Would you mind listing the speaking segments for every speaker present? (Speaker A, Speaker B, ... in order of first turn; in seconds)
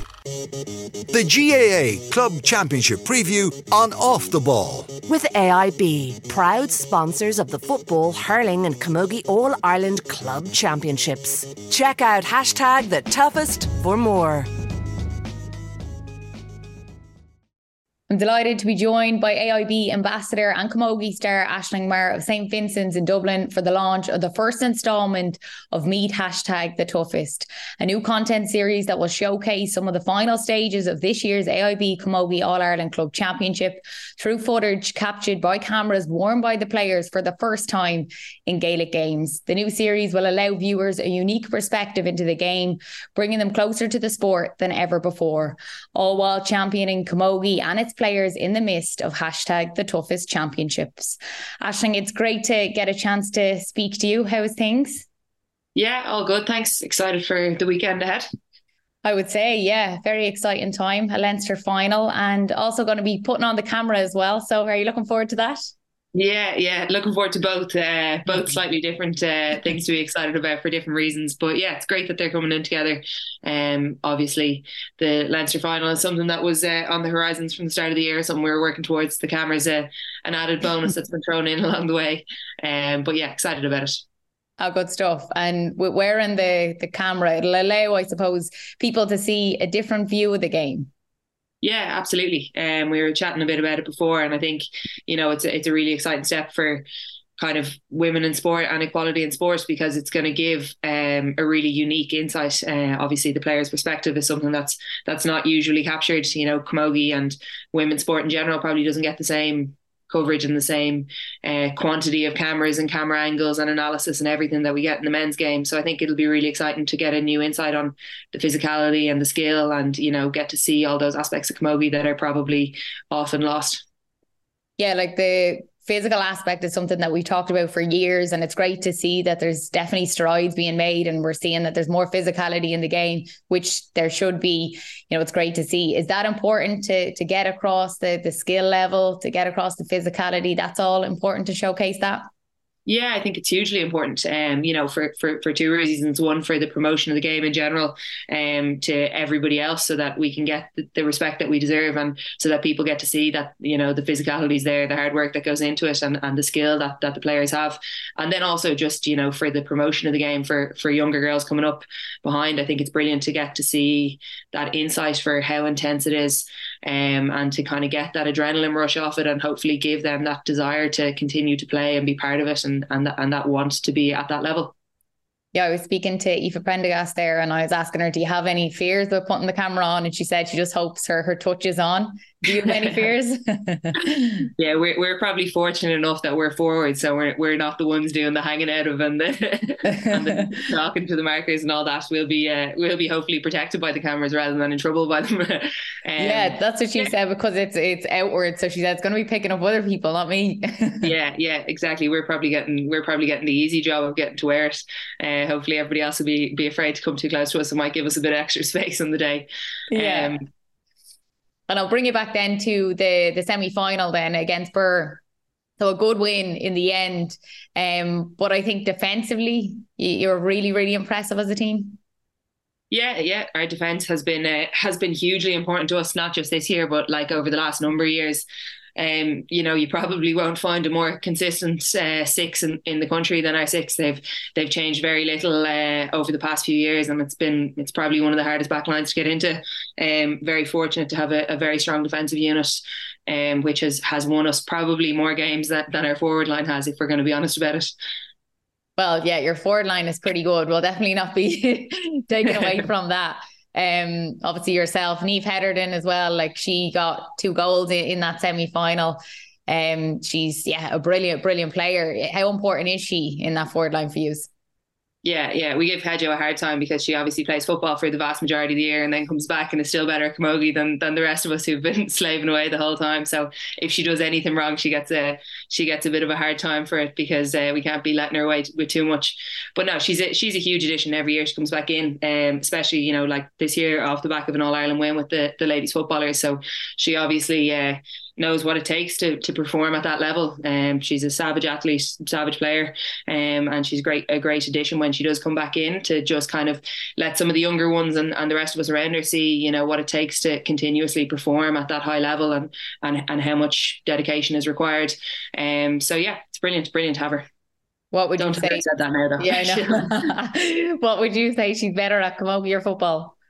Speaker A: 1.1-4.9
Speaker B: 5.1-14.5
Speaker C: 18.1-55.0, 59.0-65.7, 84.6-90.9, 124.8-142.2, 175.5-184.5, 189.9-190.5, 196.2-201.1, 209.9-210.4, 211.7-215.2, 215.8-222.0, 249.0-264.5, 308.1-308.8, 309.4-313.3
Speaker D: 55.7-58.2, 66.1-84.0, 91.6-96.8, 97.4-123.8, 142.8-174.7, 182.5-183.1, 184.6-197.1, 201.0-210.5, 222.9-228.4, 228.9-247.9, 265.2-307.4, 308.4-310.1